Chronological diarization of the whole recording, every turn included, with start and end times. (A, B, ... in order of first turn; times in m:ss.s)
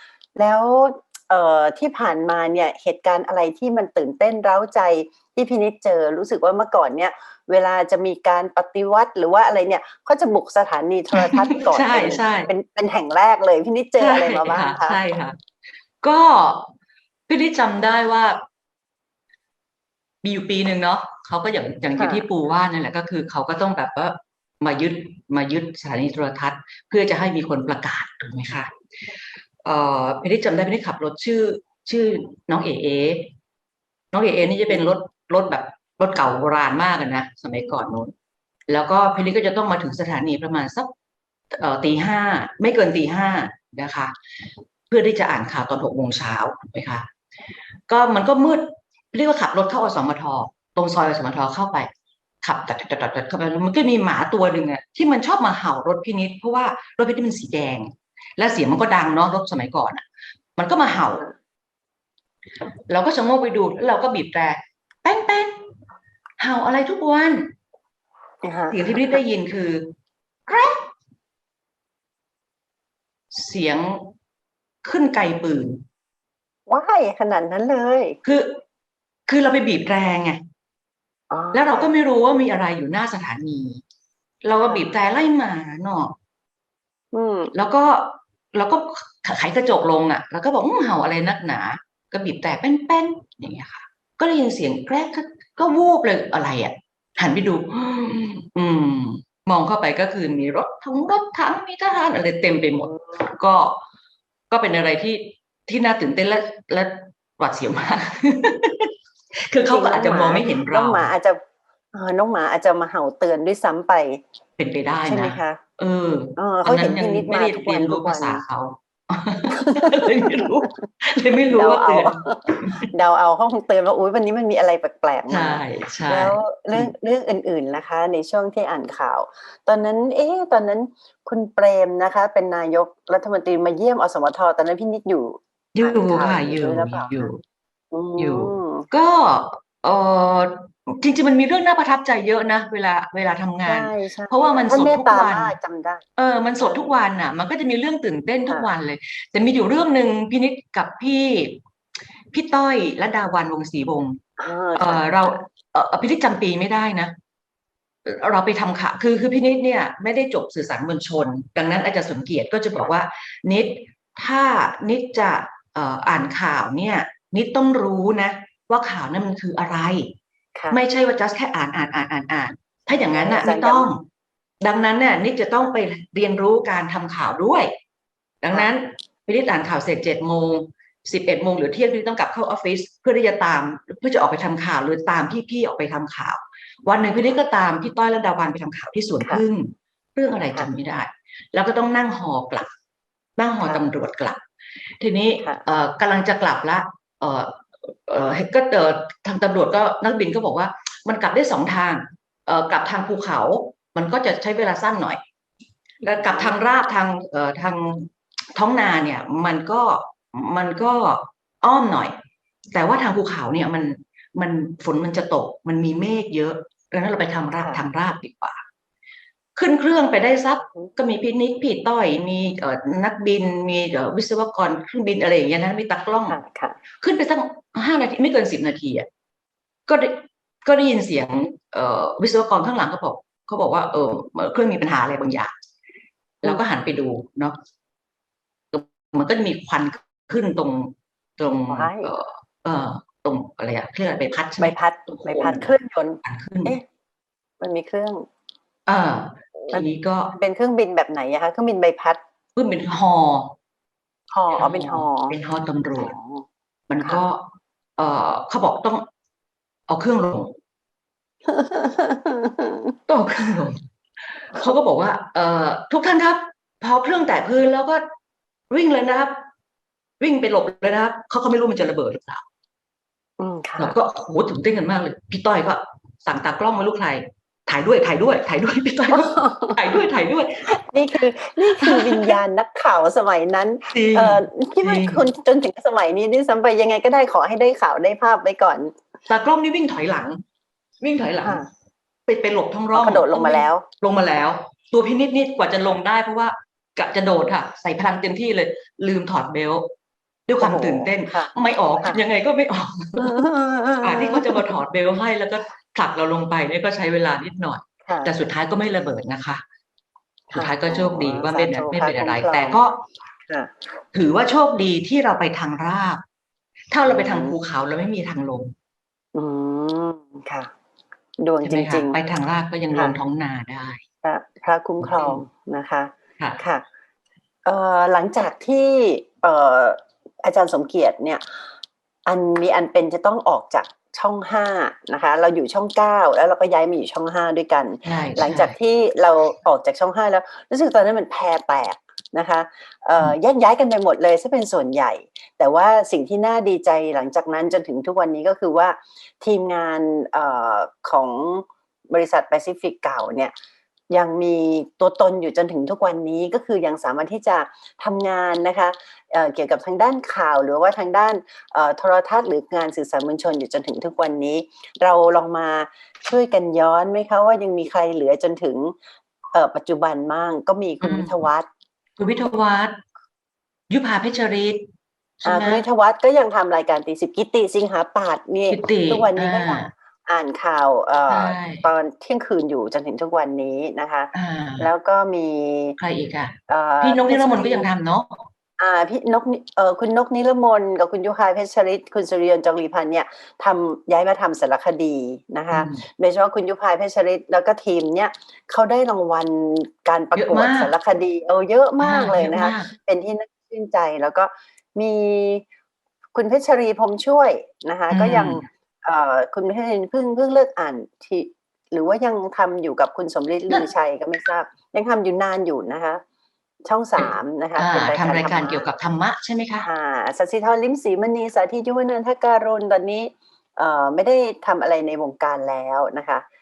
0:00.4-0:15.0 A
0:11.2-0:12.5 B
0:14.0-0:15.4 B
0:16.0-0:16.7 B
0:17.3-0:18.4 B
0:20.2-0:28.7 B
0:22.0-0:22.2 A
0:29.6-0:33.3 B
0:34.1-0:38.1 B
0:38.7-0:40.9 B
0:41.5-0:44.1 B
0:44.9-0:47.1 B
0:47.9-0:51.9 B
0:52.4-1:00.0 B
1:00.6-1:01.3 B
1:02.9-1:05.7 B
1:06.4-1:07.5 B
1:08.4-1:09.2 A
1:08.7-1:09.9 B
1:10.5-1:10.9 B
1:13.3-1:14.1 B
1:14.8-1:15.8 B
1:16.7-1:18.2 A
1:18.2-1:18.6 B
1:19.3-1:20.4 B
1:21.3-1:21.9 A
1:21.5-1:23.8 B
1:24.4-1:26.1 B
1:27.1-1:27.5 A
1:27.5-1:43.8 B
1:42.8-1:43.2 A
1:44.5-1:48.9 B
1:49.5-1:51.1 B
1:49.6-1:51.4 A
1:51.9-1:54.2 A
1:54.6-2:02.9 B
1:55.0-1:55.6 A
1:56.4-1:58.4 A
1:59.5-2:00.6 A
2:01.5-2:17.3 A
2:05.3-2:06.9 B
2:15.7-2:17.4 B
2:17.9-2:18.9 A
2:18.2-2:25.5 B
2:23.6-2:26.0 A
2:26.2-2:31.6 B
2:32.3-2:34.2 B
2:34.4-2:35.4 A
2:34.8-2:37.1 B
2:38.0-2:50.1 B
2:50.6-2:50.8 A
2:50.7-2:54.0 B
2:52.9-2:53.9 A
2:54.6-2:57.7 B
2:58.4-3:12.7 B
3:13.4-3:14.4 B
3:15.0-3:25.2 B
3:26.0-3:32.1 B
3:26.1-3:26.6 A
3:32.7-3:38.6 B
3:39.6-3:46.4 B
3:46.3-3:46.8 A
3:47.0-3:49.1 B
3:49.9-3:55.5 B
3:56.4-3:57.6 B
3:58.7-4:06.7 B
4:01.7-4:02.1 A
4:04.6-4:06.8 A
4:07.6-4:08.3 A
4:08.9-4:10.3 B
4:09.7-4:12.2 A
4:12.6-4:13.5 B
4:14.3-4:15.4 A
4:14.5-4:16.2 B
4:15.9-4:16.4 A
4:16.9-4:17.4 B
4:18.0-4:19.1 B
4:19.9-4:20.5 B
4:21.5-4:23.0 A
4:23.1-4:23.8 B
4:24.4-4:28.0 B
4:28.7-4:29.4 B
4:30.2-4:32.4 B
4:33.4-4:33.9 A
4:33.8-4:40.7 B
4:39.1-4:39.9 A
4:40.6-4:49.0 A
4:41.8-4:42.4 B
4:43.9-4:45.2 B
4:49.3-4:50.4 B
4:51.0-4:51.6 B
4:51.4-4:51.7 A
4:52.3-4:59.9 B
4:52.9-4:53.8 A
5:00.5-5:03.3 B
5:00.6-5:02.2 A
5:03.2-5:04.7 A
5:04.0-5:09.6 B
5:08.0-5:08.3 A
5:10.5-5:13.0 B
5:10.5-5:12.8 A
5:14.1-5:16.2 B
5:16.9-5:18.7 B
5:17.0-5:17.6 A
5:19.3-5:20.7 A
5:21.4-5:22.2 A
5:21.6-5:24.0 B
5:24.2-5:26.8 A
5:25.0-5:25.4 B
5:27.6-5:31.6 A
5:32.2-5:53.5 A
5:38.0-5:38.7 B
5:54.1-6:08.9 A
6:09.5-6:11.7 A
6:11.0-6:11.4 B
6:12.2-6:13.0 B
6:13.9-6:14.9 B
6:15.4-6:15.8 B
6:15.4-6:26.0 A
6:18.7-6:19.9 B
6:21.3-6:21.8 B
6:24.3-6:24.9 B
6:26.0-6:28.4 B
6:26.7-6:27.9 A
6:28.8-6:45.6 A
6:35.7-6:36.0 B
6:40.4-6:40.9 B
6:42.0-6:42.9 B
6:46.3-6:56.2 A
6:48.1-6:48.6 B
6:56.8-6:58.8 A
6:57.2-6:59.8 B
6:59.8-7:06.4 A